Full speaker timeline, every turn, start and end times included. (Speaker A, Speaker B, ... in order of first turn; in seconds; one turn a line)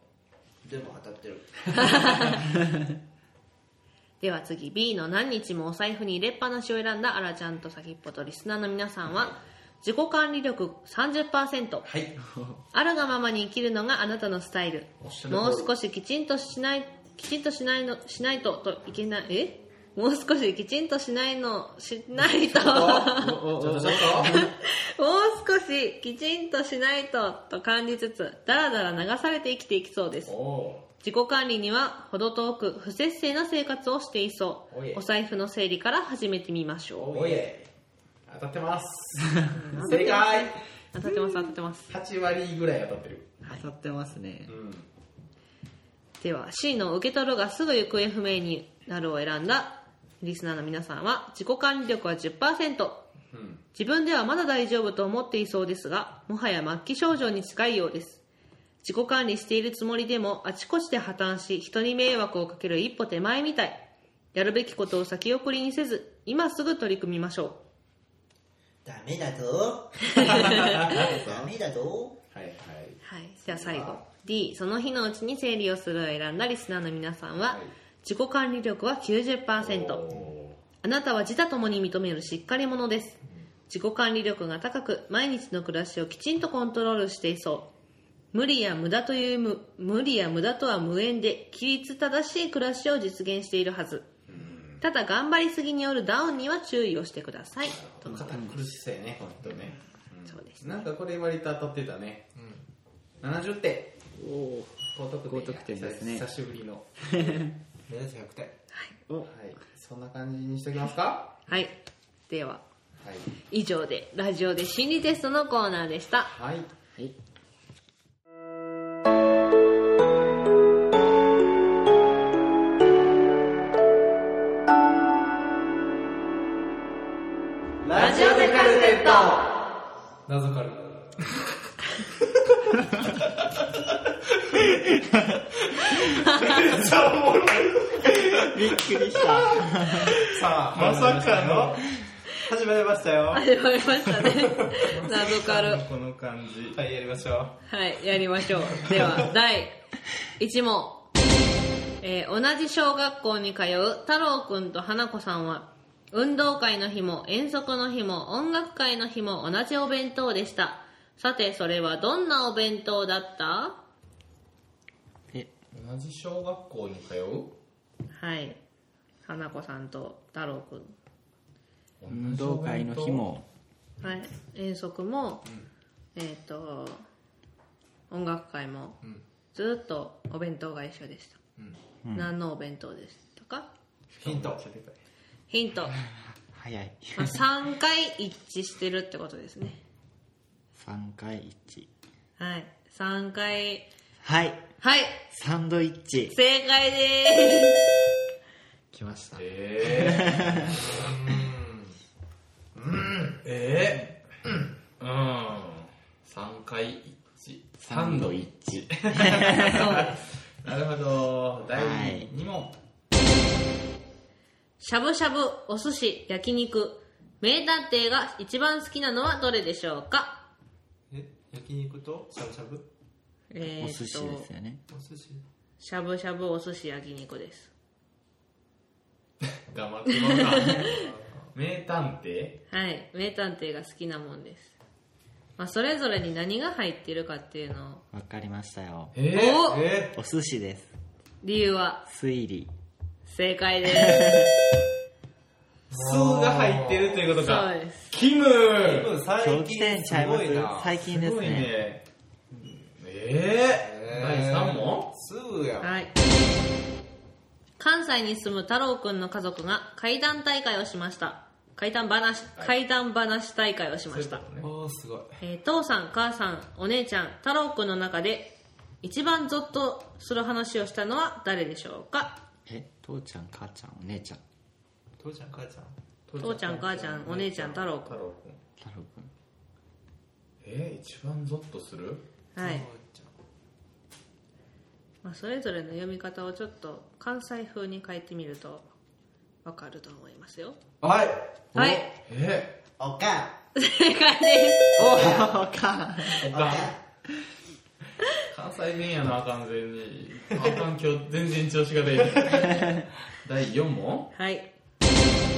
Speaker A: 0.6-2.3
Speaker B: 1.8-2.4
Speaker B: 4.2-11.9
Speaker C: 11.8-12.2
Speaker D: 12.2-12.6
Speaker B: 12.7-23.4
Speaker C: 15.0-15.7
Speaker C: 22.3-24.4
Speaker D: 23.2-24.5
Speaker B: 24.2-30.3
Speaker C: 30.3-30.9
Speaker B: 31.0-37.1
Speaker C: 34.7-35.0
Speaker C: 37.0-37.7
Speaker A: 37.1-37.7
Speaker C: 38.3-40.6
Speaker B: 39.5-41.9
Speaker C: 41.9-43.4
Speaker D: 43.5-44.5
Speaker C: 44.5-44.9
Speaker B: 46.2-53.1
Speaker C: 53.3-53.6
Speaker B: 53.8-58.2
Speaker B: 58.8-67.6
Speaker E: 68.8-72.2
Speaker C: 70.1-71.5
Speaker B: 70.2-70.7
Speaker C: 72.3-74.0
Speaker B: 73.0-80.0
Speaker C: 77.5-77.7
Speaker C: 79.6-80.6
Speaker B: 80.8-87.7
Speaker B: 88.3-94.1
Speaker C: 94.3-94.8
Speaker B: 94.8-97.8
Speaker C: 97.6-102.3
Speaker D: 98.0-98.7
Speaker B: 100.2-100.9
Speaker A: 102.3-102.7
Speaker C: 103.2-104.0
Speaker D: 104.2-106.3
Speaker C: 104.9-107.2
Speaker D: 107.1-107.5
Speaker A: 107.9-108.6
Speaker C: 109.2-111.5
Speaker B: 111.5-111.8
Speaker B: 112.3-112.6
Speaker C: 113.0-113.3
Speaker B: 113.5-116.3
Speaker C: 116.3-116.7
Speaker A: 127.8-128.6
Speaker E: 127.9-129.2
Speaker B: 128.0-129.3
Speaker A: 130.3-131.4
Speaker A: 134.6-135.0
Speaker A: 136.3-138.6
Speaker C: 136.4-138.1
Speaker D: 138.3-140.2
Speaker A: 140.2-143.5
Speaker C: 140.7-141.9
Speaker B: 143.3-145.8
Speaker A: 144.0-145.4
Speaker C: 144.9-146.8
Speaker A: 146.7-147.6
Speaker B: 147.7-149.8
Speaker B: 150.4-151.1
Speaker B: 152.0-163.8
Speaker C: 165.7-167.6
Speaker B: 168.2-168.6
Speaker B: 169.2-170.9
Speaker C: 172.0-173.3
Speaker D: 172.1-173.5
Speaker B: 174.0-175.5
Speaker B: 176.2-177.0
Speaker B: 178.1-179.0
Speaker B: 179.5-181.4
Speaker D: 182.1-182.3
Speaker B: 182.1-183.7
Speaker A: 184.2-184.7
Speaker C: 184.2-185.0
Speaker B: 185.5-185.9
Speaker D: 186.4-187.4
Speaker B: 187.2-189.8
Speaker D: 190.8-191.9
Speaker B: 192.4-193.9
Speaker D: 194.2-194.7
Speaker B: 194.8-195.2
Speaker D: 195.3-196.4
Speaker B: 196.3-197.8
Speaker D: 198.9-200.7
Speaker C: 199.4-201.5
Speaker A: 200.9-201.8
Speaker C: 202.8-204.5
Speaker C: 205.0-212.8
Speaker D: 207.8-209.9
Speaker B: 209.7-210.2
Speaker D: 211.7-212.3
Speaker B: 214.8-220.5
Speaker A: 221.1-222.9
Speaker B: 223.5-224.5
Speaker D: 223.6-224.8
Speaker A: 224.9-225.4
Speaker B: 225.8-227.7
Speaker C: 229.7-232.6
Speaker B: 230.1-230.9
Speaker A: 230.9-231.5
Speaker B: 232.7-234.7
Speaker B: 235.6-238.0
Speaker D: 238.1-239.2
Speaker C: 239.1-239.7
Speaker B: 239.3-239.9
Speaker A: 239.6-240.2
Speaker D: 240.1-240.9
Speaker B: 241.4-242.1
Speaker D: 242.1-242.7
Speaker B: 243.3-244.5
Speaker D: 243.9-244.5
Speaker A: 245.9-247.2
Speaker C: 245.9-249.2
Speaker B: 247.3-248.1
Speaker A: 248.8-251.0
Speaker D: 249.4-251.8
Speaker C: 251.0-255.1
Speaker A: 253.8-256.0
Speaker B: 255.8-256.1
Speaker B: 257.8-264.4
Speaker C: 264.1-264.7
Speaker A: 264.6-265.4
Speaker B: 265.4-272.4
Speaker D: 272.7-274.4
Speaker A: 275.2-276.0
Speaker C: 276.3-278.6
Speaker B: 276.4-278.2
Speaker D: 278.8-279.3
Speaker C: 280.6-282.2
Speaker B: 282.6-282.9
Speaker A: 282.6-283.3
Speaker B: 285.2-288.9
Speaker B: 289.6-290.8
Speaker A: 291.0-291.7
Speaker B: 291.7-292.1
Speaker C: 292.2-292.8
Speaker E: 293.0-293.5
Speaker B: 293.8-295.0
Speaker D: 295.0-296.5
Speaker A: 295.1-295.4
Speaker E: 295.1-295.5
Speaker C: 296.4-296.9
Speaker E: 296.4-297.0
Speaker C: 298.4-304.3
Speaker B: 304.4-304.7